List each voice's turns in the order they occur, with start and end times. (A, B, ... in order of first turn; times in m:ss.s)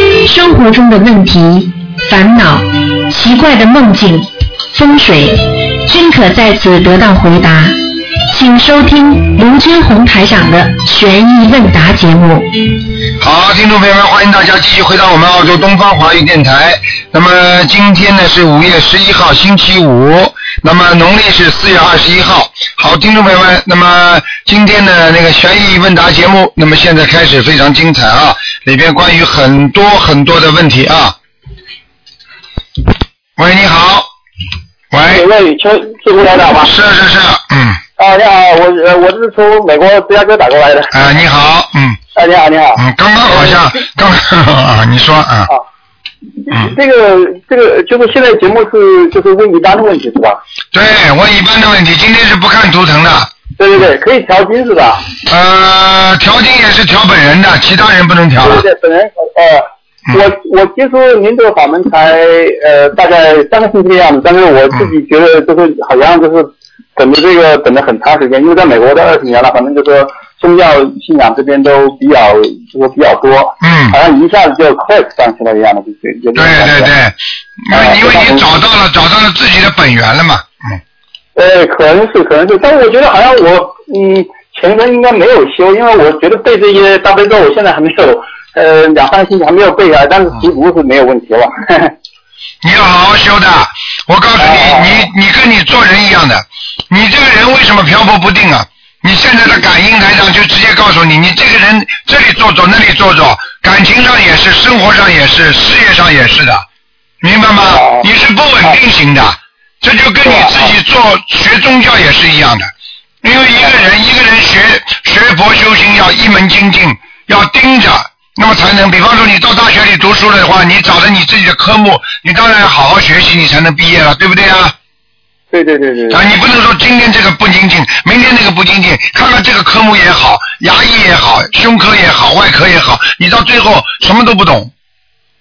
0:00.2-0:07.8 A
0:08.3-0:12.5 A
0:13.2-0:31.1 B
0:33.4-0:34.1 B
0:34.9-0:35.2 B
0:35.0-0:36.7 C
0:36.5-0:37.8 B
0:38.0-0:40.9 C
0:40.9-0:42.0 B
0:42.1-0:43.8 C
0:42.8-0:45.5 B
0:46.4-0:50.4 C
0:50.7-0:53.3 B
0:53.6-0:55.1 C
0:55.3-0:58.6 B
0:58.4-1:16.9 C
1:13.6-1:14.0 B
1:16.3-1:20.8 B
1:17.7-1:18.5 C
1:21.4-1:31.9 C
1:32.6-1:46.6 B
1:34.4-1:35.1 C
1:47.2-1:52.7 B
1:47.6-1:48.0 C
1:50.2-1:50.7 C
1:53.2-2:04.7 B
2:05.5-2:06.2 C
2:06.1-2:14.7 B